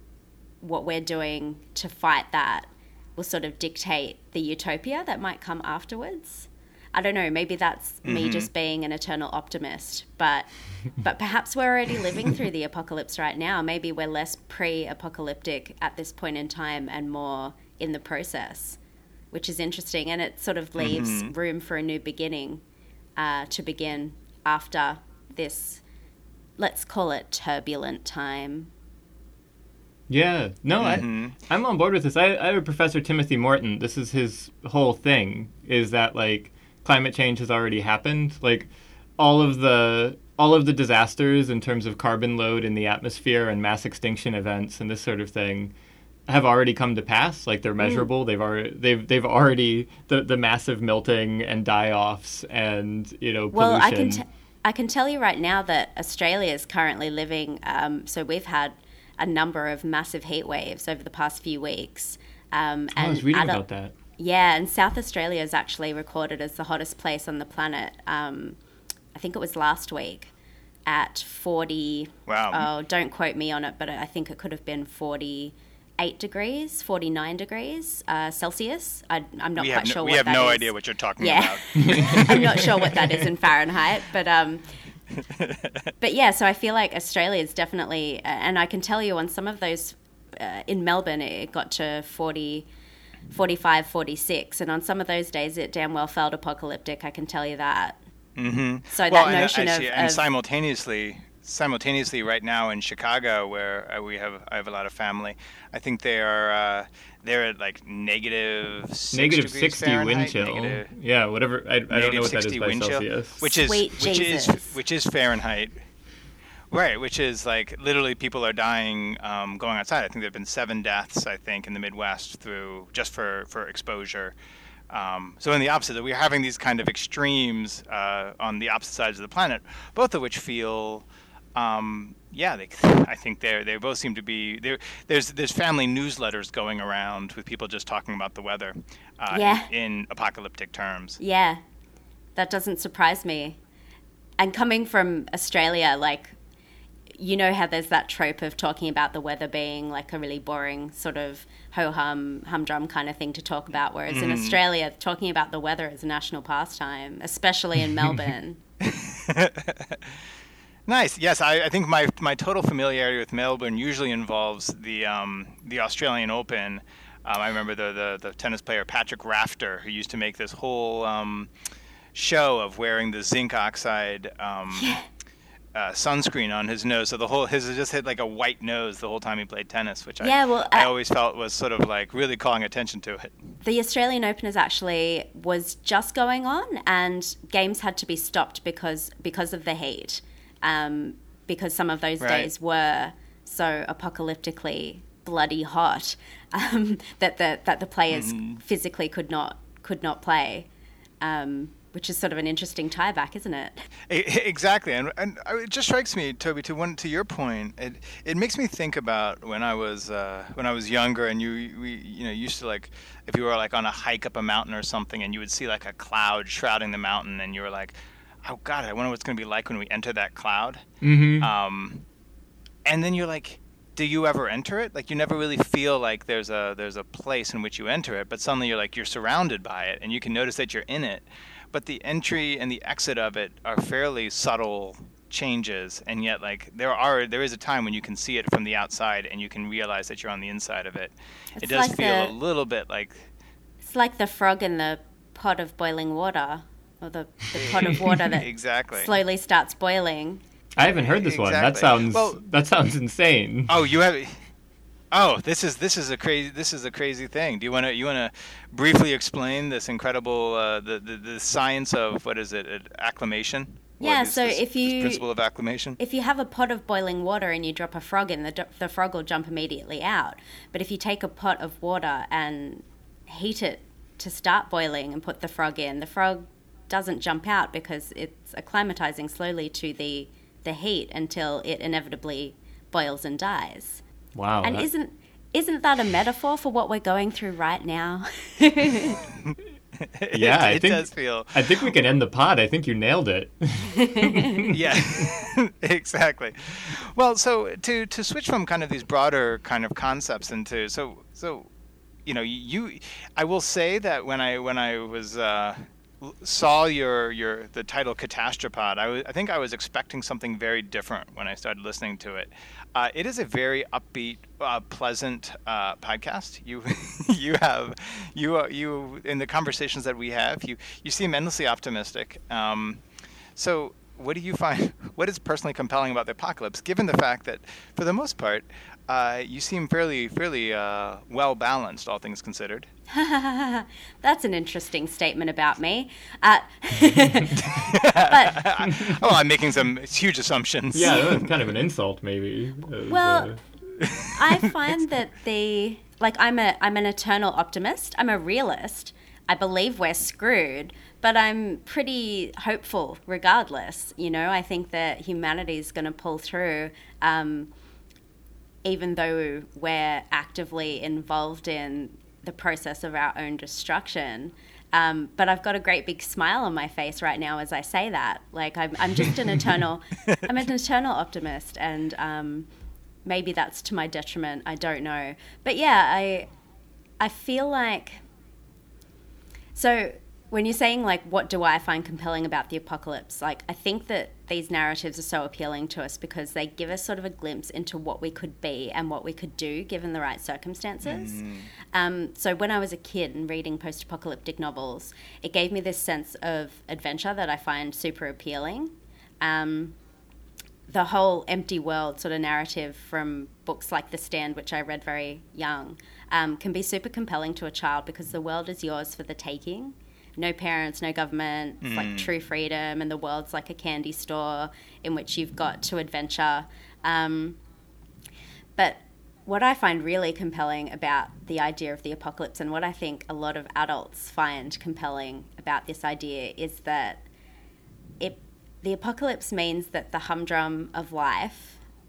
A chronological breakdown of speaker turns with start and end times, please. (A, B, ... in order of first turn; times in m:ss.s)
0:00.6-0:18.8 A
0:08.0-0:08.5 B
0:19.3-0:22.6 A
0:20.8-0:21.3 B
0:23.2-0:25.8 A
0:26.6-0:28.7 A
0:30.1-0:45.7 C
0:30.8-0:31.4 B
0:46.3-0:54.2 C
0:47.8-0:48.1 A
0:53.5-1:03.6 A
1:03.0-1:03.9 C
1:04.2-1:08.6 A
1:09.2-1:10.3 A
1:10.9-1:24.7 A
1:12.3-1:12.7 B
1:19.6-1:22.9 B
1:21.9-1:22.2 C
1:25.3-1:25.9 B
1:26.0-1:32.7 A
1:33.3-1:38.0 A
1:38.4-1:50.9 B
1:38.9-1:40.2 A
1:49.1-1:53.4 C
1:51.9-1:55.8 B
1:53.5-1:54.7 A
1:56.7-2:04.4 B
2:04.9-2:21.2 B
2:19.3-2:19.7 A
2:21.2-2:21.6 A
2:22.4-2:23.6 A
2:24.4-2:26.4 A
2:27.2-2:38.6 A
2:34.1-2:34.6 B
2:38.8-2:40.0 B
2:40.9-2:51.5 B
2:52.1-2:55.0 B
2:54.8-2:55.0 A
2:55.8-3:03.4 B
3:00.2-3:00.9 A
3:03.6-3:20.7 A
3:12.2-3:12.5 B
3:18.1-3:18.6 B
3:21.2-3:23.9 A
3:24.1-3:40.9 B
3:41.0-3:41.5 C
3:41.4-3:42.1 B
3:42.9-4:03.3 B
4:01.6-4:02.3 A
4:03.8-4:10.4 A
4:07.6-4:09.1 B
4:10.8-4:13.8 C
4:10.9-4:12.4 B
4:13.7-4:14.5 B
4:15.1-4:26.0 B
4:24.0-4:25.2 A
4:26.0-4:44.0 A
4:44.4-4:44.9 C
4:44.6-4:49.2 A
4:50.1-4:51.7 B
4:50.3-4:54.7 C
4:54.0-4:54.6 A
4:54.7-5:01.7 B
5:02.3-5:23.0 B
5:23.6-5:32.9 B
5:33.1-5:38.6 A
5:37.6-5:41.5 B
5:40.9-5:43.6 C
5:43.1-5:43.6 A
5:44.0-5:44.7 B
5:44.3-5:57.7 A
5:58.8-6:12.7 A
6:13.2-6:16.5 A
6:17.2-6:18.2 A
6:19.8-6:40.0 A
6:31.0-6:31.7 B
6:40.9-6:57.6 A
6:51.8-6:52.3 B
6:58.8-7:07.2 A
7:08.2-7:11.8 A